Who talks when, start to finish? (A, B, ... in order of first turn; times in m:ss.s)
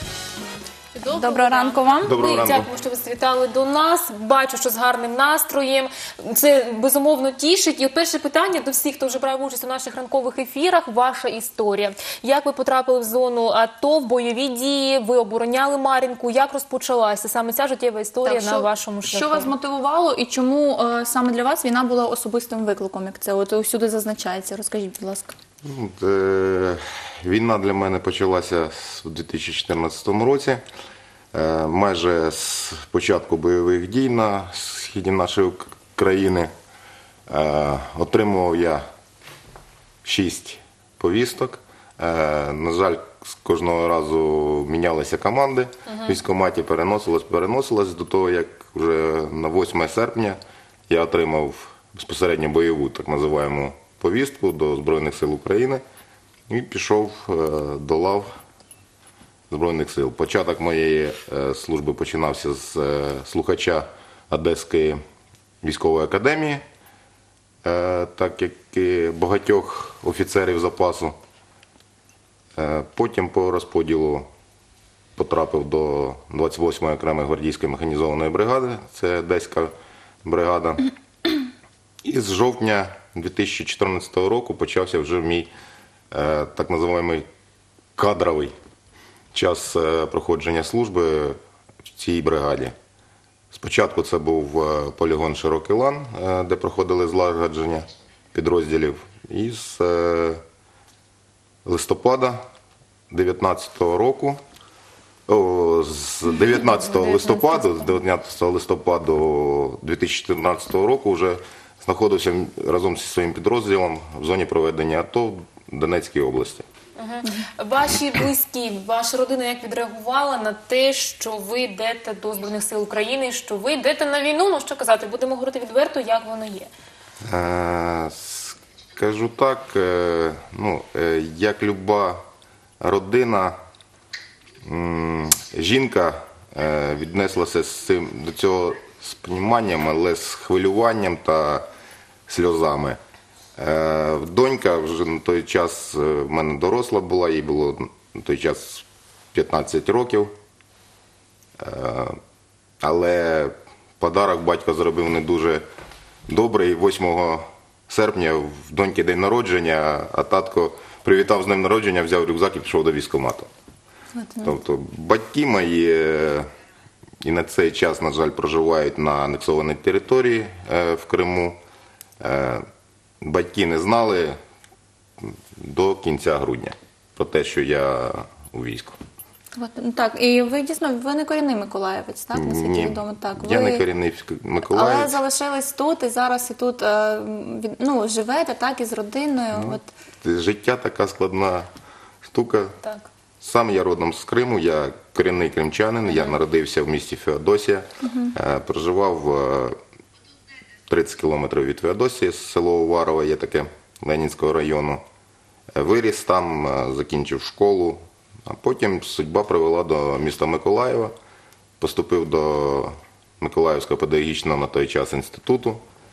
0:01.0-0:19.5 A
0:01.1-0:02.1 B
0:02.0-0:02.7 C
0:18.2-0:25.4 B
0:25.6-0:30.6 C
0:31.3-0:36.5 C
0:37.3-0:38.8 C
0:40.0-0:55.8 C
0:45.9-0:46.2 A
0:56.5-0:58.3 C
0:59.5-1:05.0 C
1:05.6-1:06.6 C
1:07.6-1:11.2 C
1:12.6-1:14.3 C
1:15.2-1:19.7 C
1:20.2-1:20.9 C
1:22.0-1:25.5 C
1:26.1-1:27.3 C
1:28.0-1:28.5 C
1:29.3-1:31.4 C
1:31.9-1:32.7 C
1:33.5-1:40.4 C
1:41.6-1:42.4 C
1:43.1-1:44.4 C
1:45.3-1:56.7 C
1:57.0-2:06.7 A
2:07.2-2:12.2 C
2:12.8-2:13.6 C
2:14.6-2:21.7 C
2:22.3-2:23.0 C
2:23.6-2:30.3 C
2:31.6-2:32.2 C
2:32.8-2:35.6 C
2:36.3-2:43.5 C
2:44.1-2:44.6 B
2:44.4-2:46.5 C
2:47.2-2:51.6 C
2:52.2-2:52.6 C
2:53.2-2:54.4 C
2:55.2-2:59.0 C
2:59.6-3:03.8 B
3:02.4-3:05.2 C
3:04.7-3:09.9 B
3:09.5-3:11.7 C
3:12.3-3:12.8 C
3:12.8-3:13.1 A
3:13.4-3:19.8 C
3:16.1-3:16.4 A
3:18.0-3:18.3 B
3:20.9-3:25.0 C
3:25.8-3:31.1 C
3:31.8-3:35.8 C